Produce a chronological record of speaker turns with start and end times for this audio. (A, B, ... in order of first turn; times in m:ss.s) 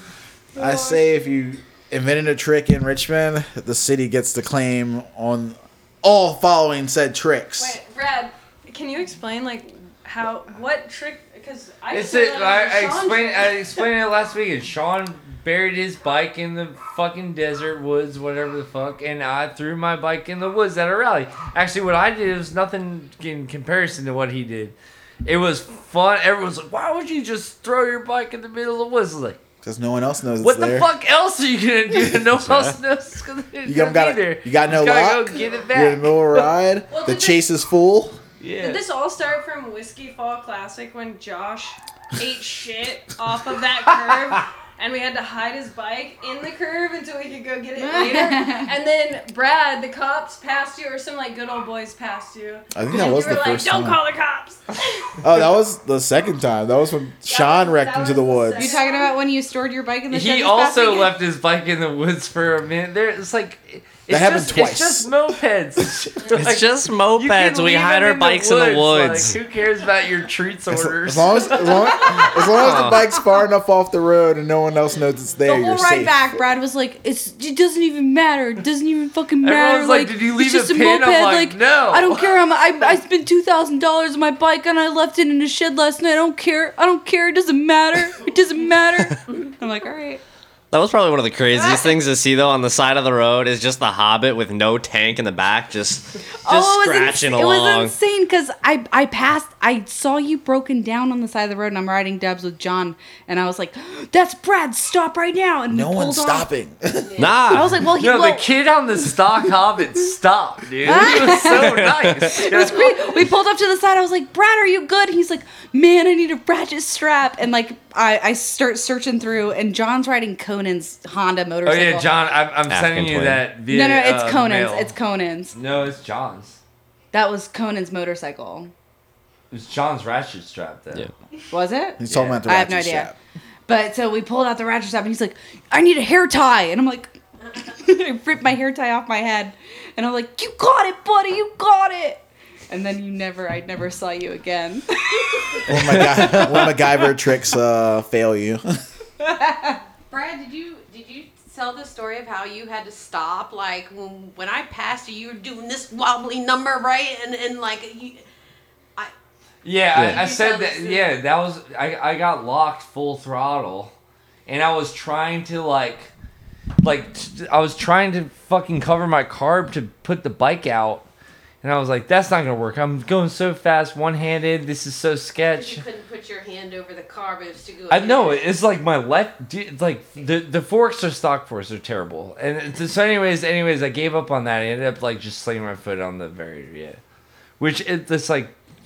0:00.6-0:01.0 A
0:00.6-0:07.8 B
0:07.6-0:13.9 A
0:11.9-0:29.4 C
0:29.6-0:30.9 B
0:30.4-0:36.5 C
0:32.3-0:32.8 D
0:33.6-0:38.2 B
0:36.9-0:37.4 A
0:38.4-0:38.8 C
0:38.6-0:55.0 A
0:43.8-0:44.4 C
0:47.9-0:48.7 E
0:52.7-0:54.0 B
0:55.2-0:58.8 B
0:57.2-0:59.2 A
0:58.6-1:01.2 E
1:00.1-1:12.0 C
1:04.1-1:05.2 B
1:05.8-1:06.5 B
1:06.3-1:09.4 D
1:10.7-1:16.2 B
1:12.6-1:13.0 D
1:12.7-1:13.0 C
1:15.4-1:30.2 E
1:19.4-1:22.3 C
1:30.7-1:37.9 D
1:36.4-1:46.5 E
1:45.7-1:47.2 B
1:47.0-1:47.6 F
1:47.2-1:47.6 D
1:47.5-1:48.5 E
1:47.5-1:52.9 C
1:50.8-2:02.3 E
1:51.7-1:52.3 D
2:01.6-2:04.9 C
2:02.7-2:03.5 D
2:03.6-2:05.6 E
2:05.5-2:06.6 C
2:07.1-2:08.7 E
2:09.5-2:11.1 C
2:11.5-2:13.1 E
2:12.0-2:13.1 B
2:13.7-2:26.9 E
2:25.6-2:28.6 B
2:29.2-2:29.8 E
2:30.1-2:38.2 F
2:39.6-2:43.9 C
2:39.9-2:41.2 F
2:39.9-2:40.2 D
2:44.4-2:46.1 C
2:46.8-2:51.1 C
2:51.6-2:55.8 C
2:55.5-2:58.6 F
2:57.9-3:07.0 C
3:07.6-3:08.6 C